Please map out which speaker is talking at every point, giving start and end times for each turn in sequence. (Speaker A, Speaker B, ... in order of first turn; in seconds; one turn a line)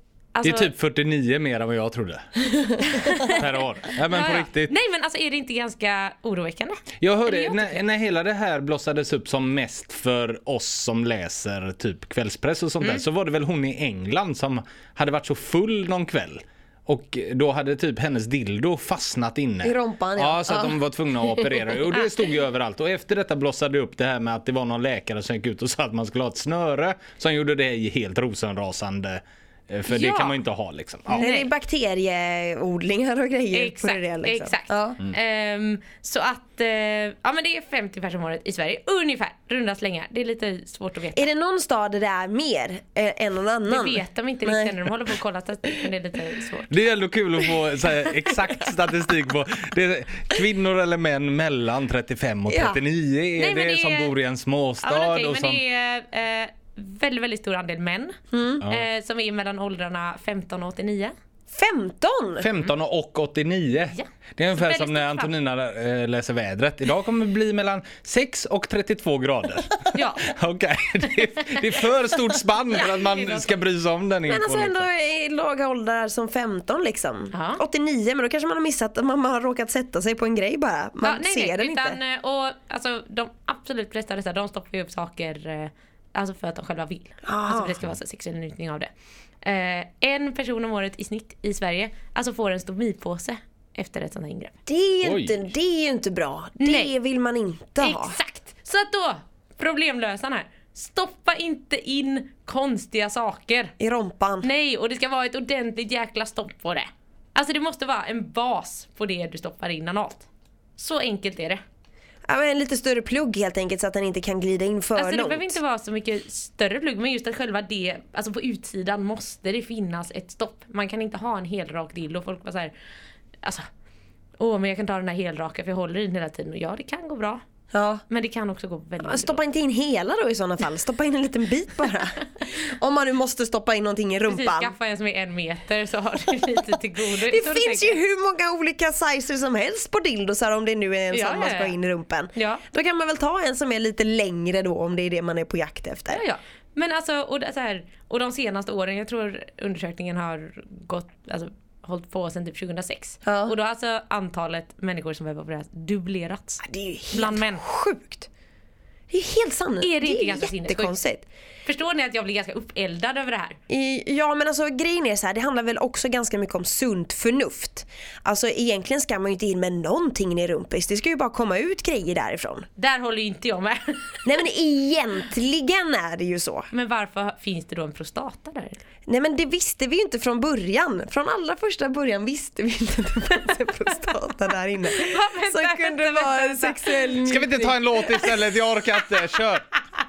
Speaker A: 0.3-0.7
Speaker B: 0.4-2.4
Speaker C: 2.5-2.9
Speaker A: 2.8-3.4
Speaker B: 3.2-4.7
Speaker A: 4.0-7.8
Speaker B: 7.0-31.2
Speaker C: 19.6-20.8
Speaker A: 29.9-30.4
Speaker C: 31.1-35.0
Speaker A: 31.2-31.5
Speaker A: 33.5-41.3
Speaker C: 41.1-44.8
Speaker A: 43.7-46.7
Speaker B: 46.7-55.6
Speaker C: 52.5-52.8
Speaker A: 53.4-54.1
Speaker A: 54.8-61.1
Speaker C: 58.3-58.6
Speaker C: 61.5-62.5
Speaker B: 62.4-74.8
Speaker A: 63.9-65.3
Speaker A: 69.9-70.2
Speaker A: 72.7-73.6
Speaker C: 74.3-82.0
Speaker A: 77.3-77.6
Speaker A: 81.0-88.9
Speaker C: 87.2-87.8
Speaker A: 89.4-94.5
Speaker C: 94.7-98.2
Speaker B: 95.0-95.4
Speaker A: 96.6-96.9
Speaker A: 97.8-103.7
Speaker C: 103.8-104.5
Speaker A: 104.4-111.6
Speaker C: 112.3-115.6
Speaker A: 115.0-122.7
Speaker A: 124.4-127.4
Speaker C: 127.7-128.0
Speaker A: 128.1-129.4
Speaker C: 129.0-134.7
Speaker A: 134.2-138.0
Speaker C: 137.1-146.2
Speaker A: 141.1-141.8
Speaker A: 142.3-142.6
Speaker A: 146.1-157.6
Speaker C: 153.2-153.5
Speaker C: 156.6-158.3
Speaker C: 159.1-161.2
Speaker A: 159.8-160.9
Speaker A: 161.6-163.6
Speaker C: 163.7-172.7
Speaker A: 172.8-174.2
Speaker C: 174.2-176.7
Speaker A: 176.7-178.8
Speaker C: 179.1-188.4
Speaker A: 184.9-187.1
Speaker B: 187.2-189.7